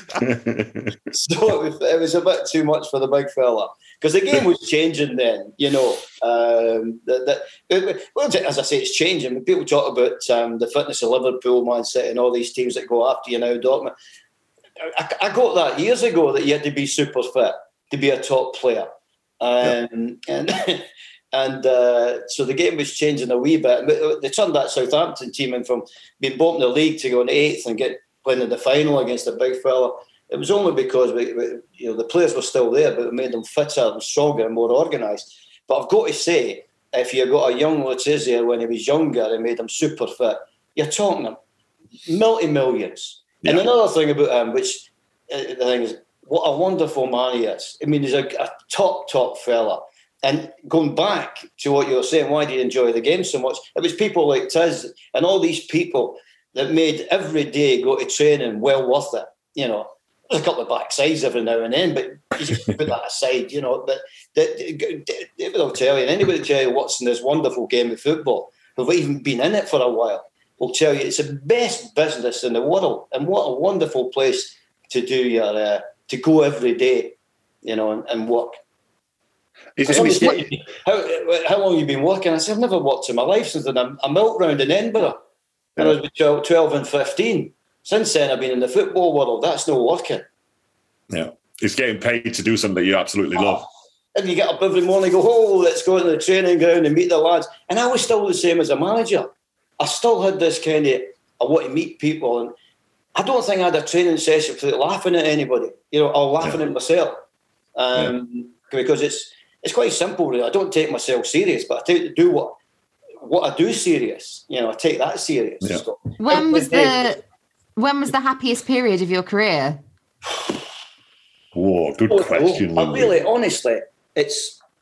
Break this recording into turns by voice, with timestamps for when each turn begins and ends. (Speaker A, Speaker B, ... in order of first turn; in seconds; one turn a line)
Speaker A: 0.1-0.9
Speaker B: 1.1-13.9
Speaker B: 14.8-18.9
Speaker B: 19.4-41.4
Speaker B: 42.1-77.1
Speaker A: 43.4-43.7
Speaker B: 77.6-78.6
Speaker A: 79.8-80.4
Speaker B: 79.8-85.2
Speaker B: 85.8-90.2
Speaker A: 91.1-93.6
Speaker B: 94.2-102.5
Speaker B: 103.2-107.2
Speaker B: 107.8-112.5
Speaker B: 113.2-117.1
Speaker C: 116.2-117.2
Speaker C: 117.8-119.8
Speaker A: 121.5-123.2
Speaker B: 122.1-124.6